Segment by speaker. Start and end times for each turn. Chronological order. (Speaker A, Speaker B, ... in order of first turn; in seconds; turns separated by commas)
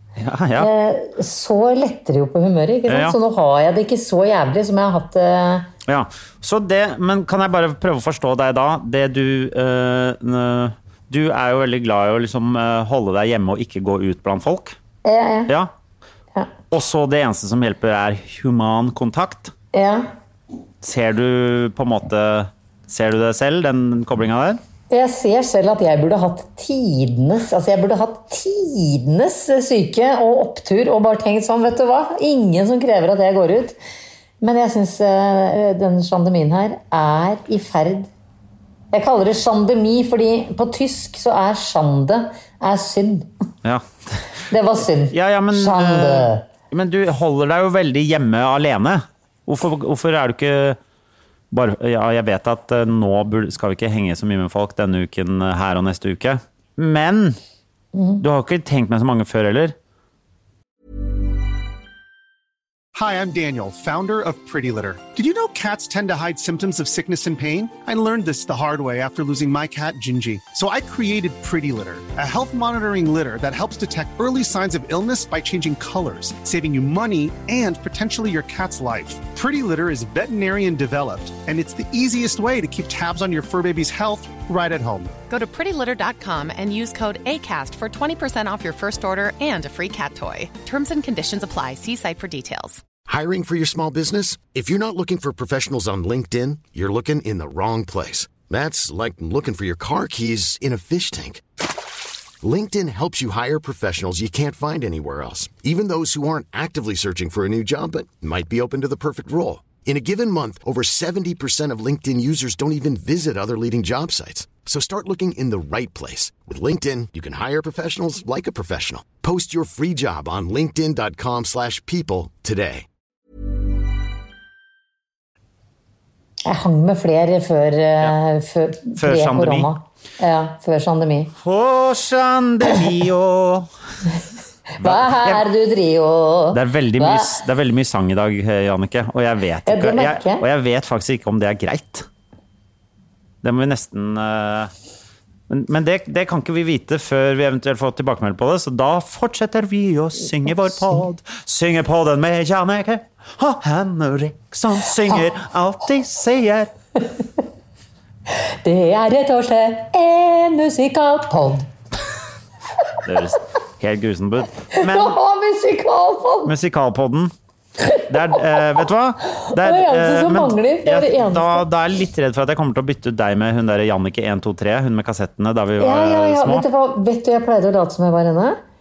Speaker A: 0.2-0.7, Speaker B: 0.6-5.7, Speaker A: 2.9-3.1, Speaker A: 5.9-14.8, Speaker B: 15.0-15.5, Speaker A: 16.7-19.5, Speaker B: 19.7-20.1, Speaker A: 20.8-24.6, Speaker B: 24.9-33.8, Speaker B: 34.4-38.1, Speaker B: 38.9-43.3, Speaker B: 44.5-46.4, Speaker A: 45.1-50.8, Speaker A: 51.5-57.4, Speaker B: 57.9-58.2, Speaker A: 58.2-59.7, Speaker C: 62.9-85.1, Speaker D: 85.3-92.8, Speaker E: 93.0-101.4, Speaker E: 102.4-122.9, Speaker B: 126.4-131.3, Speaker A: 129.0-129.7, Speaker A: 131.4-133.7, Speaker B: 134.8-137.4, Speaker A: 134.8-135.4, Speaker A: 136.5-142.1, Speaker B: 139.7-140.4, Speaker A: 143.4-144.7, Speaker A: 145.5-156.7, Speaker B: 158.6-161.7, Speaker A: 163.0-165.2, Speaker B: 164.8-166.5, Speaker A: 166.4-167.3, Speaker A: 168.0-176.6, Speaker B: 169.3-171.6, Speaker B: 175.8-178.6